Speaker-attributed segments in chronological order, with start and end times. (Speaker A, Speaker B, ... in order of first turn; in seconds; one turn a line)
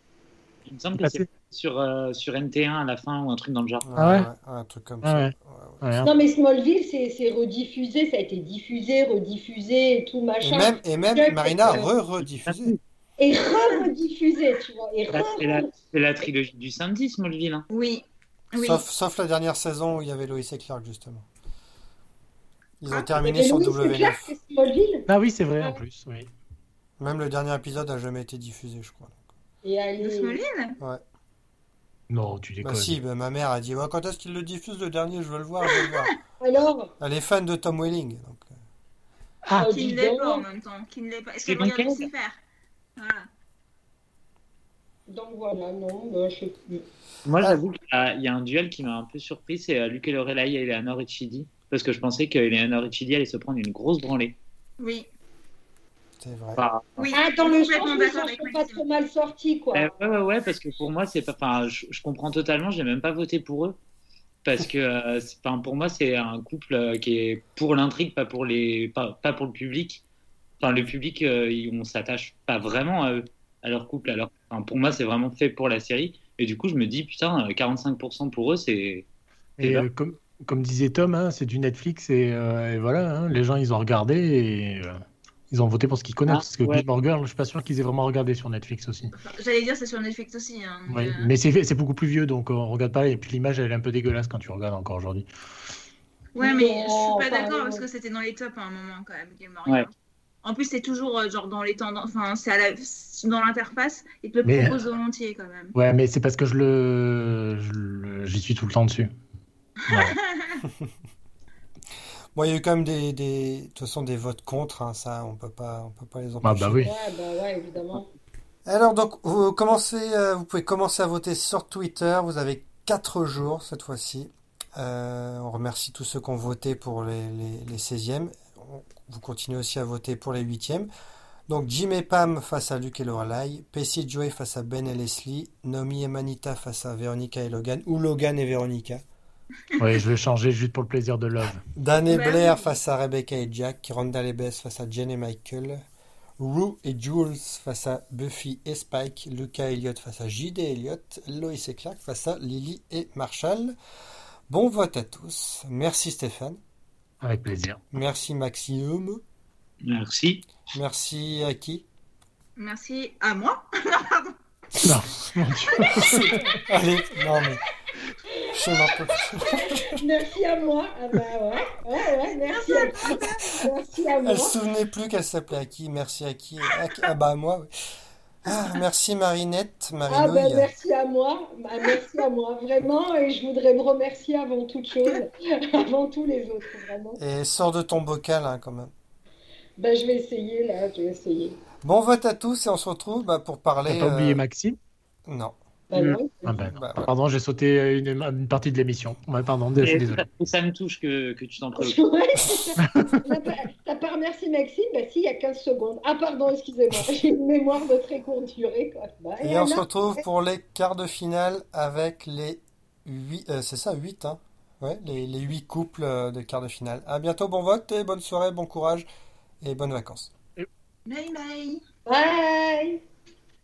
Speaker A: 0.7-3.9
Speaker B: 1.0-1.2
Speaker C: 3.8-6.0
Speaker B: 4.0-4.3
Speaker B: 5.0-6.1
Speaker D: 6.0-11.9
Speaker C: 10.4-12.8
Speaker A: 12.4-12.8
Speaker D: 13.2-15.7
Speaker A: 15.1-17.7
Speaker E: 17.7-18.8
Speaker C: 18.6-21.3
Speaker C: 22.8-24.3
Speaker D: 23.2-25.1
Speaker B: 25.1-26.3
Speaker C: 27.0-29.2
Speaker D: 29.6-30.4
Speaker E: 30.0-30.8
Speaker B: 32.1-32.9
Speaker C: 32.6-36.1
Speaker E: 35.7-36.1
Speaker D: 36.4-36.9
Speaker C: 37.0-38.5
Speaker D: 39.5-40.5
Speaker E: 39.6-42.4
Speaker A: 41.4-42.1
Speaker E: 43.0-43.3
Speaker D: 45.1-46.8
Speaker A: 47.2-54.4
Speaker E: 54.8-55.1
Speaker C: 56.2-56.6
Speaker A: 56.6-57.1
Speaker E: 57.0-58.8
Speaker D: 57.1-59.9
Speaker A: 59.7-63.8
Speaker A: 64.4-70.0
Speaker A: 70.6-79.1
Speaker B: 79.6-89.1
Speaker A: 79.6-79.9
Speaker A: 86.3-86.8
Speaker E: 89.1-91.3
Speaker B: 90.9-95.3
Speaker E: 96.3-99.9
Speaker D: 96.4-97.8
Speaker E: 100.4-105.7
Speaker B: 104.4-104.8
Speaker B: 105.7-109.1
Speaker E: 109.8-110.6
Speaker B: 109.9-110.2
Speaker C: 112.3-116.9
Speaker B: 116.4-116.9
Speaker D: 116.8-118.0
Speaker C: 118.7-130.9
Speaker C: 131.5-139.0
Speaker B: 139.8-141.6
Speaker C: 141.8-145.8
Speaker E: 142.1-142.7
Speaker C: 146.4-153.7
Speaker C: 154.5-156.6
Speaker B: 157.2-157.8
Speaker C: 157.9-159.2
Speaker A: 159.8-160.6
Speaker C: 160.7-161.8
Speaker E: 162.6-164.3
Speaker B: 164.8-166.4
Speaker C: 165.9-167.6
Speaker D: 166.1-166.5
Speaker C: 168.5-170.0
Speaker D: 169.4-174.6
Speaker E: 172.5-173.6
Speaker C: 174.2-177.7
Speaker C: 178.4-180.7
Speaker D: 180.1-187.2
Speaker C: 187.2-188.9
Speaker D: 189.8-191.6
Speaker C: 191.8-194.4
Speaker B: 193.9-194.8
Speaker C: 195.3-195.6
Speaker D: 195.9-196.6
Speaker A: 195.9-196.2
Speaker B: 196.4-200.2
Speaker C: 196.7-197.1
Speaker A: 199.8-202.0
Speaker D: 201.8-210.2
Speaker C: 209.4-219.1
Speaker C: 219.6-220.3
Speaker E: 221.1-221.8
Speaker D: 222.1-223.0